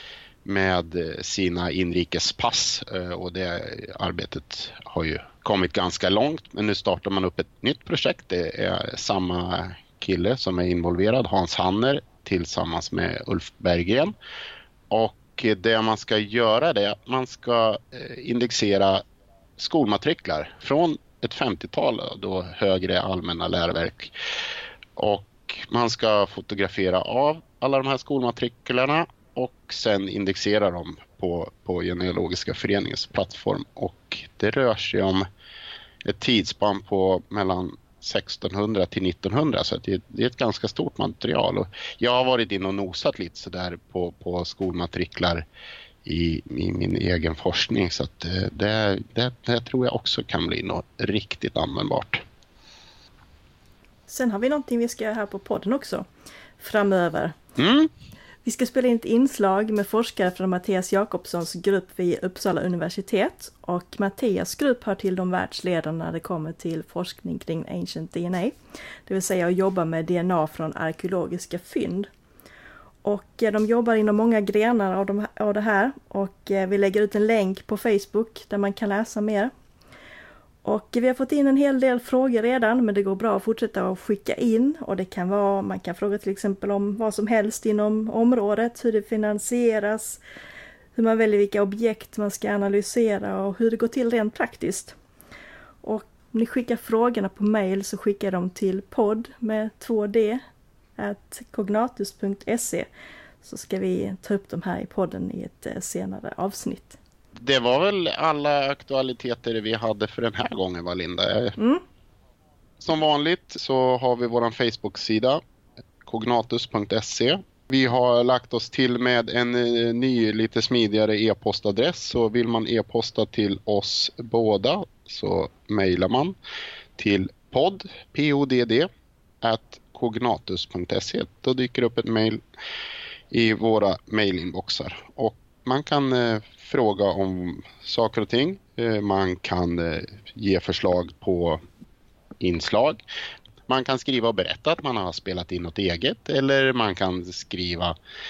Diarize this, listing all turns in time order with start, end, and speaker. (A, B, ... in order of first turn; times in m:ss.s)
0:00.4-0:14.1 A
0:14.9-0:19.0 A
0:19.6-0:24.1 A
0:25.0-0:35.3 A
0:36.1-0:45.4 A
0:46.0-0:52.2 A
0:54.1-0:56.1 B
0:56.6-0:57.4 B
0:57.6-0:57.9 A
0:58.4-1:08.6 B
1:09.1-1:12.1 B
1:13.0-1:19.5 B
1:20.6-1:30.2 B
1:31.0-1:35.0 B
1:35.8-1:40.4 B
1:41.0-1:42.9 B
1:43.4-1:47.0 B
1:47.4-1:51.6 A
1:51.6-1:51.8 B
1:52.8-1:55.4 A
1:56.0-2:06.4 A
2:07.0-2:08.9 A
2:09.4-2:12.4 A
2:13.3-2:21.6 A
2:22.4-2:23.0 A
2:23.7-2:28.0 A